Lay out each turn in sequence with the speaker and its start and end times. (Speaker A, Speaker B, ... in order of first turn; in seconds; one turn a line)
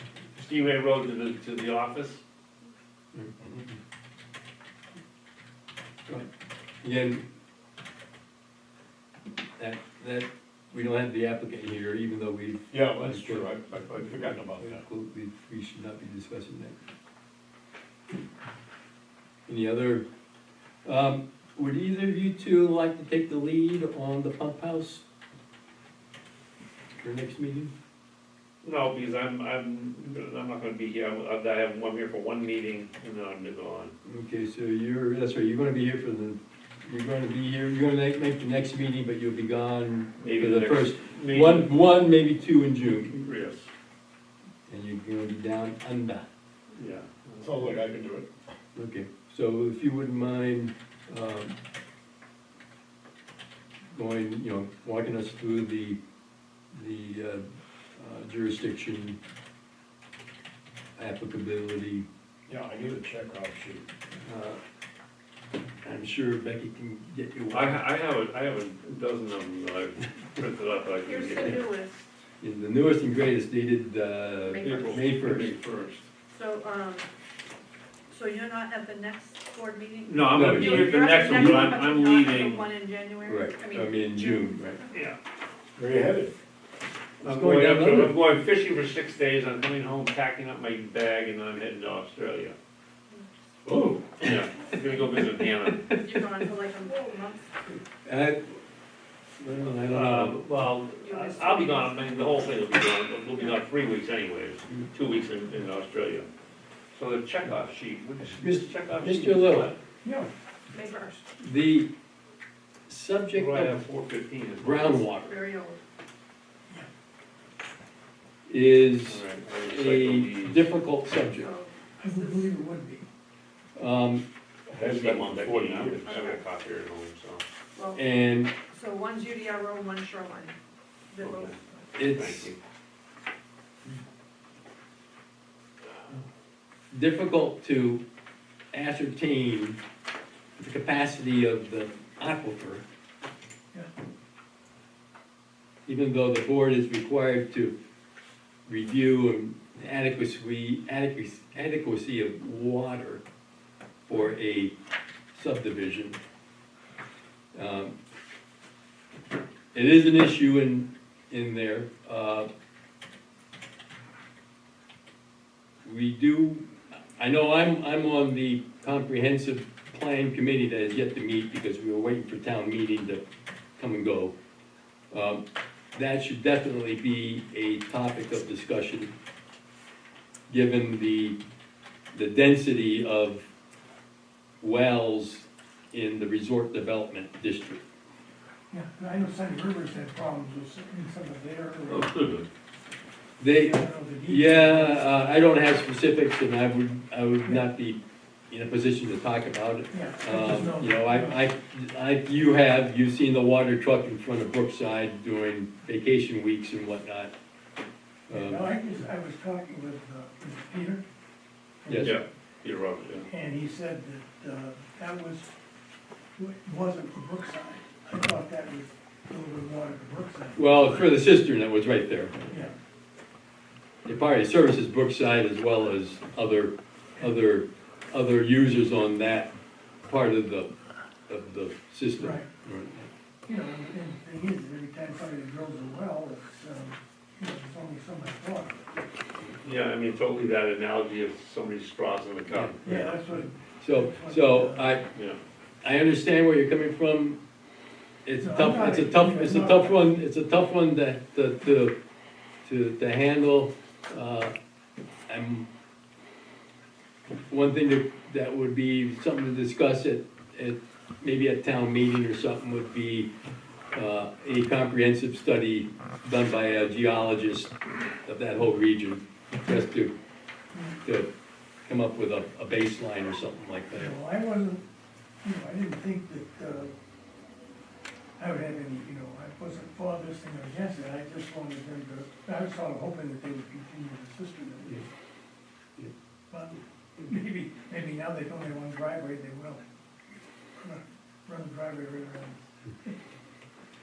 Speaker A: 0.3-2.2
Speaker B: 3.1-3.7
Speaker B: 6.8-7.2
Speaker B: 9.6-16.8
Speaker C: 12.7-14.8
Speaker B: 19.5-20.0
Speaker B: 20.8-25.0
Speaker B: 27.0-27.7
Speaker A: 28.6-33.9
Speaker B: 34.0-43.3
Speaker A: 40.2-41.7
Speaker A: 43.2-43.7
Speaker B: 44.7-46.2
Speaker A: 46.7-47.8
Speaker C: 47.4-48.3
Speaker B: 48.7-51.5
Speaker B: 53.9-56.0
Speaker B: 56.7-57.4
Speaker B: 58.0-59.2
Speaker B: 61.0-62.0
Speaker C: 62.5-63.9
Speaker B: 64.2-64.6
Speaker B: 65.8-67.8
Speaker A: 67.5-71.6
Speaker D: 71.0-72.1
Speaker B: 72.4-75.6
Speaker D: 74.4-75.1
Speaker A: 74.6-76.1
Speaker D: 76.3-77.1
Speaker D: 78.1-85.0
Speaker A: 80.1-82.7
Speaker B: 80.3-81.8
Speaker B: 83.2-84.8
Speaker A: 84.9-85.2
Speaker C: 85.8-86.3
Speaker A: 87.2-92.5
Speaker B: 87.2-88.2
Speaker C: 93.7-94.0
Speaker B: 93.7-94.0
Speaker A: 94.2-95.8
Speaker D: 95.9-97.5
Speaker B: 98.0-98.5
Speaker B: 99.4-100.4
Speaker A: 99.8-106.3
Speaker D: 101.0-102.2
Speaker A: 106.9-109.8
Speaker B: 108.4-109.7
Speaker E: 110.0-110.3
Speaker D: 110.7-111.2
Speaker B: 111.4-111.9
Speaker B: 112.9-113.8
Speaker A: 113.3-115.1
Speaker B: 114.6-115.3
Speaker D: 115.2-115.8
Speaker B: 118.5-121.5
Speaker A: 119.1-120.7
Speaker D: 121.3-122.5
Speaker E: 122.0-123.1
Speaker B: 123.8-124.2
Speaker C: 124.7-126.2
Speaker A: 124.8-127.4
Speaker D: 126.0-126.4
Speaker D: 127.8-128.0
Speaker B: 128.0-128.5
Speaker D: 128.6-130.6
Speaker D: 131.1-131.8
Speaker A: 131.2-132.6
Speaker B: 131.9-132.5
Speaker B: 136.9-138.0
Speaker B: 138.7-139.8
Speaker B: 140.6-142.8
Speaker B: 145.8-147.7
Speaker B: 148.7-153.2
Speaker B: 154.1-154.7
Speaker B: 155.3-156.2
Speaker B: 157.5-157.9
Speaker B: 159.7-162.5
Speaker B: 165.8-173.2
Speaker B: 173.8-174.3
Speaker B: 175.1-175.4
Speaker B: 175.9-179.1
Speaker B: 180.5-181.4
Speaker B: 182.1-183.5
Speaker B: 184.6-187.8
Speaker E: 188.7-192.1
Speaker A: 191.9-192.5
Speaker B: 193.4-207.3
Speaker E: 193.5-195.4
Speaker E: 199.9-201.4
Speaker B: 208.3-208.7
Speaker E: 208.3-211.0
Speaker E: 211.8-212.2
Speaker B: 211.9-212.2
Speaker A: 212.0-213.3
Speaker E: 213.3-215.5
Speaker E: 216.4-221.1
Speaker B: 220.6-222.4
Speaker E: 222.5-222.7
Speaker B: 224.0-229.5
Speaker B: 230.1-230.7
Speaker B: 231.3-233.1
Speaker E: 232.2-232.5
Speaker E: 233.4-238.8
Speaker A: 239.6-243.0
Speaker B: 242.5-245.1
Speaker E: 242.8-244.9
Speaker A: 245.1-245.4
Speaker B: 245.8-247.4
Speaker B: 248.2-251.9
Speaker E: 248.4-250.1
Speaker B: 252.6-254.5
Speaker B: 255.3-255.7
Speaker B: 257.5-263.3
Speaker B: 263.9-267.7
Speaker B: 268.2-270.1
Speaker B: 271.9-274.2
Speaker E: 273.9-274.8
Speaker E: 275.4-276.9
Speaker E: 278.4-285.1
Speaker E: 286.5-289.8
Speaker E: 290.8-293.1